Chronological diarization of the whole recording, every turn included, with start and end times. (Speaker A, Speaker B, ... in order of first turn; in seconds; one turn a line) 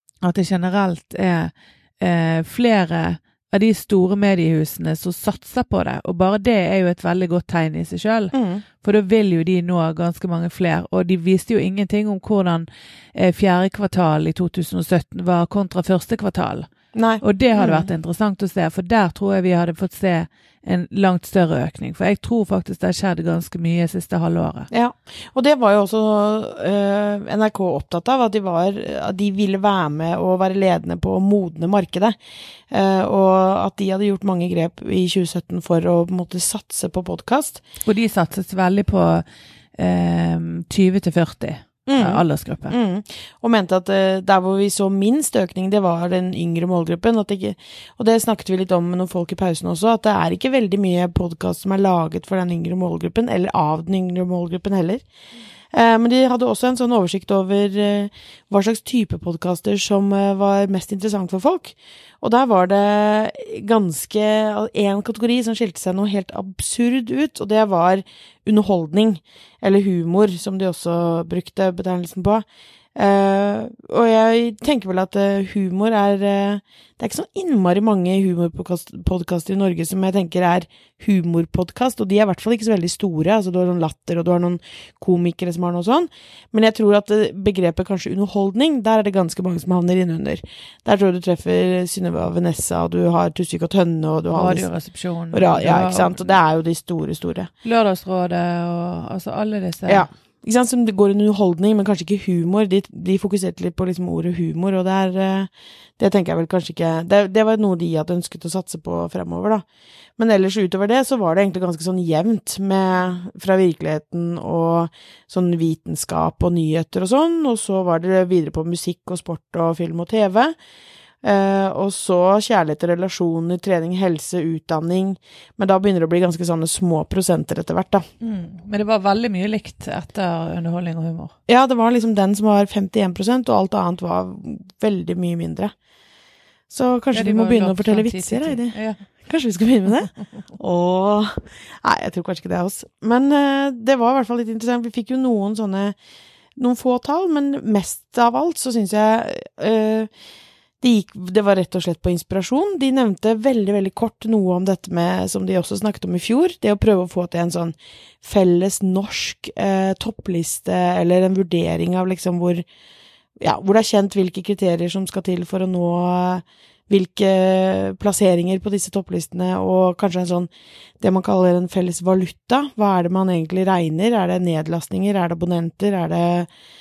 Speaker A: 0.2-24.7
Speaker B: 8.3-8.6
Speaker B: 16.9-17.9
Speaker B: 24.7-32.2
Speaker B: 32.7-37.6
Speaker A: 37.8-39.2
Speaker A: 39.8-42.7
Speaker B: 41.9-55.0
Speaker B: 55.7-94.7
Speaker A: 94.3-96.3
Speaker B: 95.3-97.5
Speaker A: 97.6-100.1
Speaker B: 99.9-109.6
Speaker B: 110.2-120.5
Speaker B: 121.2-128.0
Speaker A: 128.2-131.3
Speaker B: 131.5-135.7
Speaker B: 136.7-145.9
Speaker A: 137.1-139.0
Speaker B: 146.6-150.1
Speaker B: 150.8-162.6
Speaker B: 163.4-176.5